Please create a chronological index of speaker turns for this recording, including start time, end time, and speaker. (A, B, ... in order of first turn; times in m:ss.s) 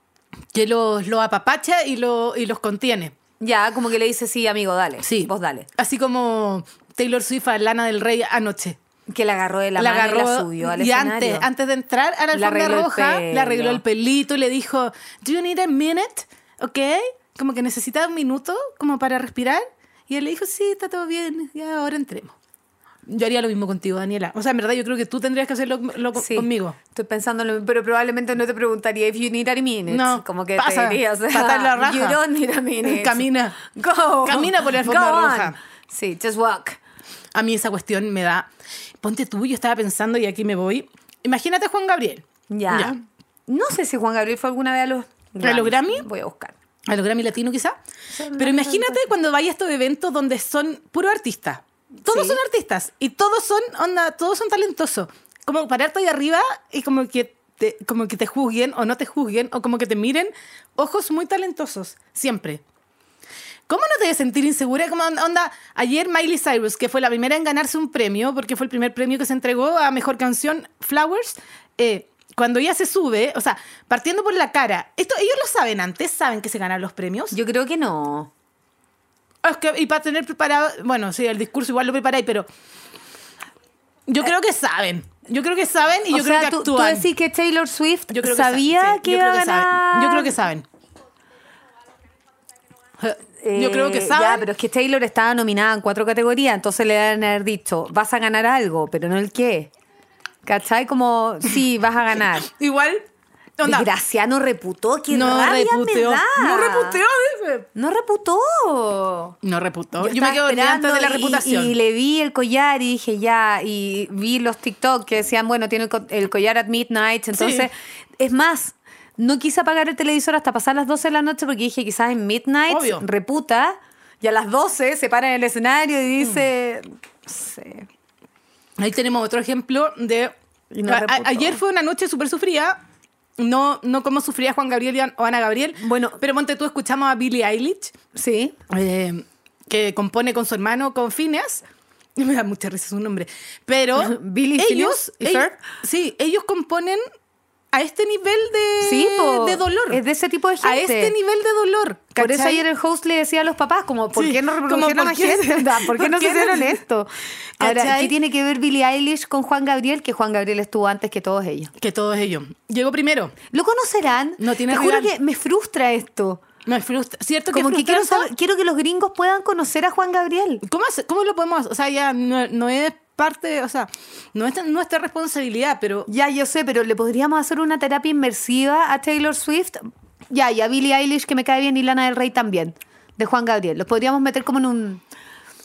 0:00.5-0:03.1 A
0:03.4-0:05.7 B
0:05.0-0:08.8 A
0:09.1-0:11.5 B
0:09.8-0:22.4 A
0:12.3-0:13.8 B
0:23.0-0:26.8 A
0:26.1-0:36.8 B
0:29.9-0:32.2 A
0:32.8-0:33.6 A
0:34.2-0:35.6 A
0:37.3-0:38.5 A
0:39.0-0:42.9 A
0:42.5-0:46.5 B
0:45.4-0:46.0 A
0:46.9-0:47.8 A
0:48.1-0:49.1 B
0:48.4-1:02.6 A
0:52.0-0:52.4 B
1:03.7-1:17.4 A
1:17.3-1:18.3 B
1:19.4-1:22.5 A
1:24.1-1:27.1 A
1:26.1-1:30.4 B
1:28.1-1:30.6 A
1:33.0-1:34.5 A
1:33.4-1:39.7 B
1:40.4-1:42.5 B
1:42.4-1:43.1 A
1:43.6-1:43.9 A
1:43.6-1:47.0 B
1:45.1-1:47.7 A
1:47.7-1:49.4 B
1:49.4-1:51.7 A
1:50.0-2:07.9 B
1:57.3-1:57.7 A
2:02.7-2:03.0 A
2:08.8-2:10.3 A
2:10.7-2:11.6 B
2:10.9-2:12.8 A
2:13.4-2:17.9 A
2:15.8-2:16.2 B
2:18.1-2:18.6 B
2:18.7-2:21.6 A
2:22.2-2:27.0 A
2:24.0-2:25.6 B
2:27.7-2:30.0 A
2:28.8-2:31.1 B
2:30.6-2:32.6 A
2:32.2-2:41.7 B
2:34.1-2:36.8 A
2:37.6-2:38.1 A
2:41.8-2:43.3 A
2:43.5-2:46.4 B
2:44.4-2:45.1 A
2:46.6-2:48.3 A
2:47.5-2:50.6 B
2:50.6-2:56.1 A
2:56.1-3:05.0 B